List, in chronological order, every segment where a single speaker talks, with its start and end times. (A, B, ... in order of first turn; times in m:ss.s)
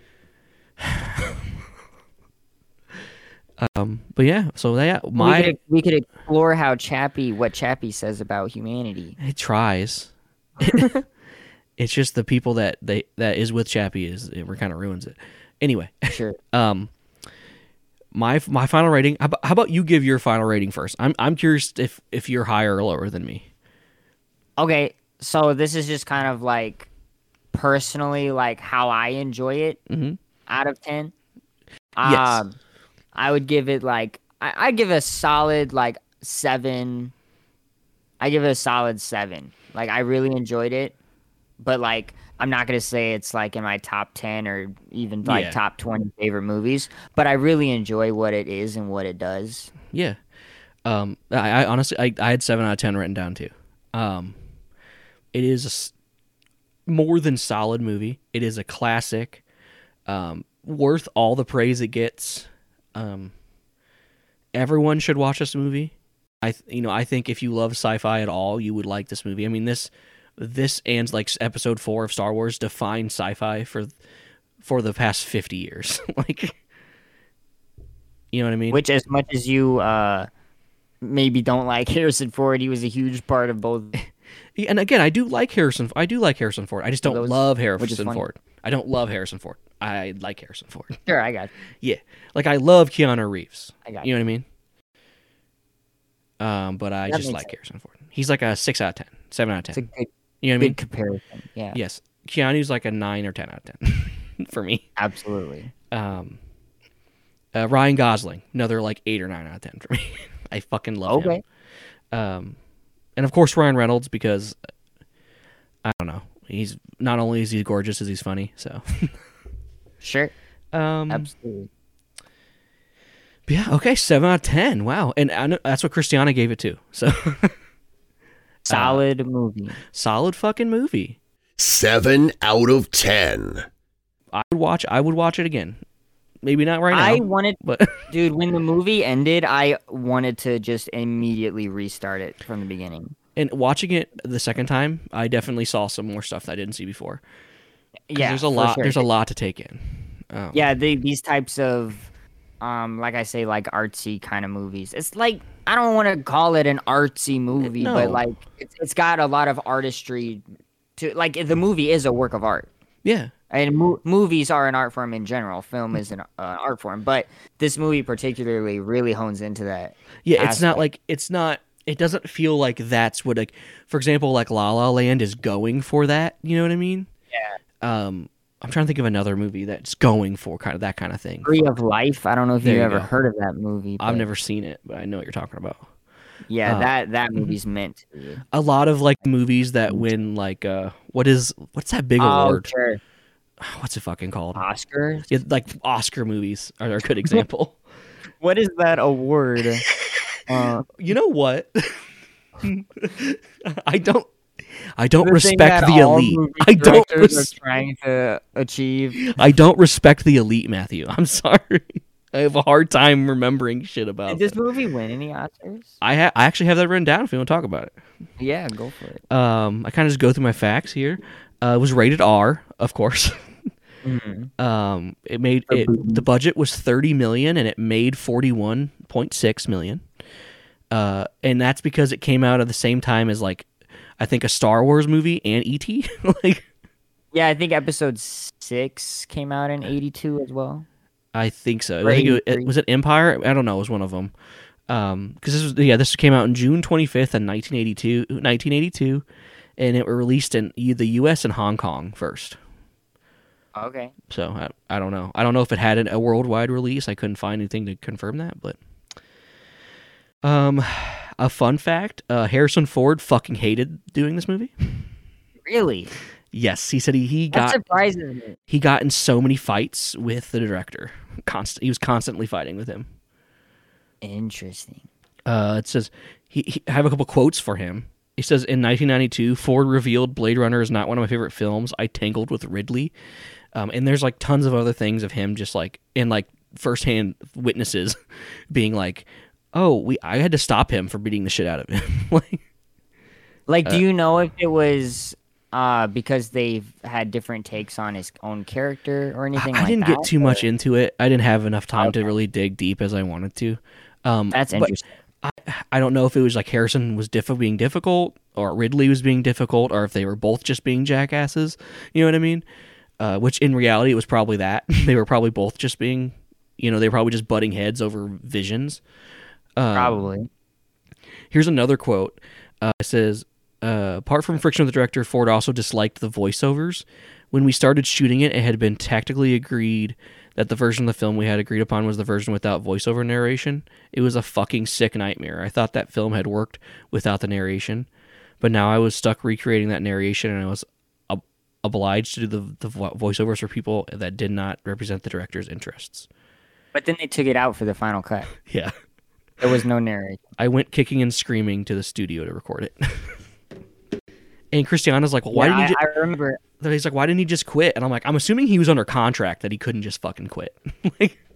0:00.8-0:01.4 A
0:03.6-0:05.6 A
0:05.2-0:09.2 B
0:09.2-0:10.9 A
0:10.6-0:11.0 B
0:11.8-0:16.9 A
0:16.1-0:16.4 B
0:18.1-0:23.4 A
0:24.6-0:26.9 B
0:27.5-0:29.8 B
0:29.9-0:30.2 A
0:30.5-0:31.1 B
0:32.0-0:32.6 B
0:32.0-0:32.4 A
0:33.1-0:37.1 B
0:38.2-0:40.9 B
0:41.6-0:49.7 B
0:45.2-0:45.6 A
0:49.9-0:50.2 A
0:50.8-0:54.4 A
0:55.3-0:55.9 A
0:56.8-0:59.4 A
1:00.0-1:03.3 A
1:04.5-1:13.9 A
1:14.6-1:16.6 A
1:18.3-1:18.8 A
1:18.7-1:20.3 B
1:21.0-1:24.0 B
1:24.6-1:31.0 A
1:27.0-1:28.2 B
1:31.1-1:31.5 B
1:31.8-1:34.4 A
1:36.4-1:39.8 A
1:37.0-1:37.5 B
1:39.7-1:41.8 B
1:40.4-1:40.8 A
1:41.7-1:44.8 A
1:45.0-1:45.7 B
1:45.9-1:46.4 A
1:47.5-1:51.4 A
1:51.1-1:51.4 B
1:52.1-1:52.6 A
1:53.2-1:54.6 A
1:55.8-1:59.1 A
2:00.0-2:00.3 B
2:00.7-2:01.3 A
2:01.1-2:01.7 B
2:03.5-2:07.5 A
2:08.6-2:09.8 B
2:08.7-2:09.0 A
2:09.9-2:11.2 A
2:11.6-2:13.7 C
2:14.3-2:15.8 A
2:16.4-2:18.0 A
2:16.9-2:23.1 B
2:23.4-2:27.2 A
2:28.1-2:29.0 B
2:28.1-2:30.6 A
2:30.5-2:32.1 B
2:32.6-2:40.4 B
2:37.6-2:38.2 A
2:41.0-2:42.7 B
2:43.0-2:43.3 A
2:43.5-2:50.8 B
2:50.2-2:57.1 A
2:57.3-2:57.6 B
2:57.8-3:01.7 A
3:01.4-3:04.3 B
3:02.6-3:03.1 A
3:04.0-3:05.9 A
3:06.5-3:08.4 B
3:06.6-3:07.5 A
3:08.5-3:12.7 A
3:12.2-3:13.0 B
3:13.6-3:14.6 A
3:14.5-3:15.3 B
3:15.3-3:17.8 A
3:18.4-3:19.8 B
3:20.5-3:20.9 B
3:20.9-3:22.0 A
3:22.6-3:27.5 A
3:25.2-3:29.2 B
3:29.2-3:34.6 A
3:34.3-3:35.9 B
3:36.0-3:38.0 A
3:38.4-3:39.2 B
3:39.3-3:43.5 A
3:44.0-3:44.5 B
3:44.6-3:50.0 A
3:45.7-3:46.2 B
3:50.9-3:56.6 A
3:57.3-4:00.8 B
4:01.3-4:04.3 A
4:02.0-4:02.7 B
4:04.9-4:09.2 A
4:09.8-4:12.6 A
4:13.8-4:14.1 B
4:14.3-4:18.8 A
4:20.4-4:25.1 A
4:25.6-4:26.1 B
4:26.5-4:27.8 A
4:27.5-4:28.6 B
4:28.7-4:33.1 A
4:34.2-4:35.0 B
4:35.4-4:43.1 A
4:43.7-4:48.2 A
4:48.7-4:52.6 A
4:53.7-5:00.6 B
4:59.6-5:12.6 A
5:02.0-5:02.3 B
5:04.5-5:05.1 B
5:13.2-5:19.0 A
5:19.8-5:20.2 A
5:19.9-5:20.5 B
5:21.5-5:38.1 A
5:38.6-5:46.3 A
5:46.9-5:48.5 B
5:48.6-5:48.9 A
5:49.6-5:50.4 B
5:50.6-5:53.4 A
5:54.7-5:56.0 A
5:55.5-5:56.6 B
5:56.8-6:01.4 A